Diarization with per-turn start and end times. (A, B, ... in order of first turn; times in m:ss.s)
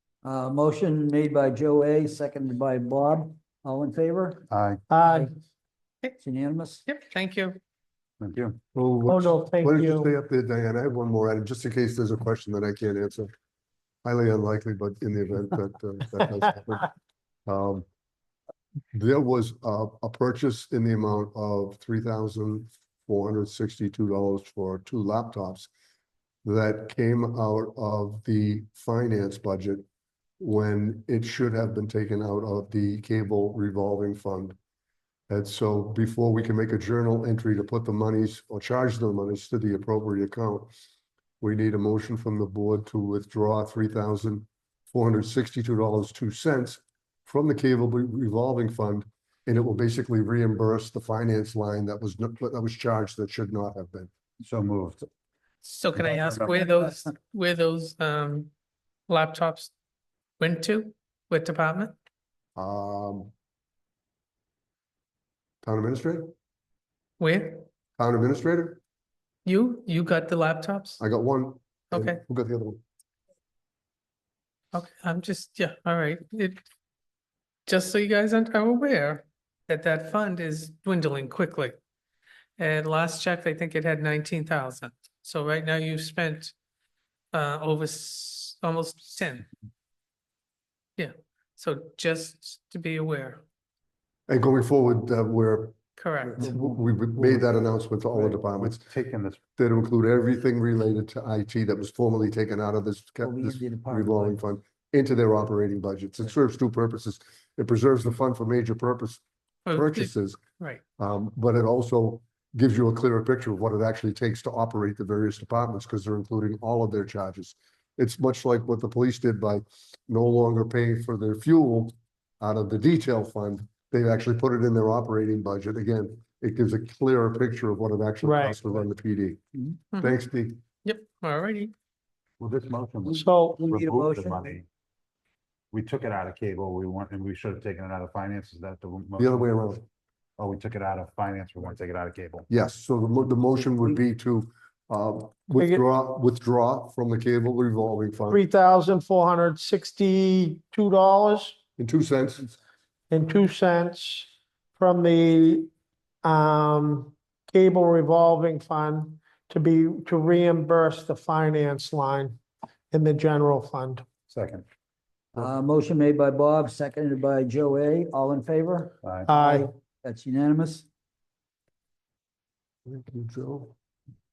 0:00.2-0:04.4 A
0:04.5-0:04.8 B
0:04.9-0:05.3 C
0:06.2-0:06.8 A
0:06.8-0:07.6 D
0:08.2-0:08.6 B
0:08.7-0:13.3 E
0:09.1-0:10.1 C
0:14.0-0:16.9 E
0:17.5-0:17.8 E
0:18.9-0:25.7 E
0:26.4-0:29.8 E
0:30.4-0:34.6 E
0:35.3-0:40.7 E
0:41.4-0:54.1 E
0:54.4-0:55.1 B
0:55.6-0:58.5 D
0:55.9-0:56.7 B
0:59.1-0:59.7 D
1:00.4-1:01.9 D
1:02.6-1:03.3 E
1:05.6-1:06.3 E
1:07.2-1:07.6 D
1:08.0-1:08.8 E
1:09.4-1:11.0 D
1:11.0-1:12.8 E
1:11.9-1:12.2 D
1:14.7-1:16.6 D
1:17.7-1:21.8 D
1:22.6-1:26.5 D
1:27.3-1:29.5 D
1:31.0-1:33.4 D
1:34.3-1:35.8 E
1:36.0-1:36.4 D
1:36.3-1:37.0 A
1:36.3-1:38.8 E
1:38.1-1:39.4 B
1:39.6-1:49.2 E
1:43.2-1:44.4 A
1:49.7-1:50.8 D
1:49.7-1:50.4 E
1:51.0-2:09.4 E
2:08.2-2:08.6 C
2:10.0-2:10.6 E
2:10.8-2:11.7 D
2:12.4-2:14.6 B
2:13.1-2:14.5 A
2:13.1-2:13.6 C
2:15.7-2:19.5 B
2:19.2-2:19.8 E
2:20.4-2:22.4 B
2:22.5-2:28.4 E
2:28.3-2:31.6 C
2:31.8-2:32.5 E
2:33.1-2:35.7 C
2:36.2-2:42.4 C
2:42.9-2:44.0 C
2:44.3-2:44.6 B
2:45.3-2:50.9 A
2:49.0-2:49.3 B
2:49.2-2:49.7 C
2:52.8-2:53.7 E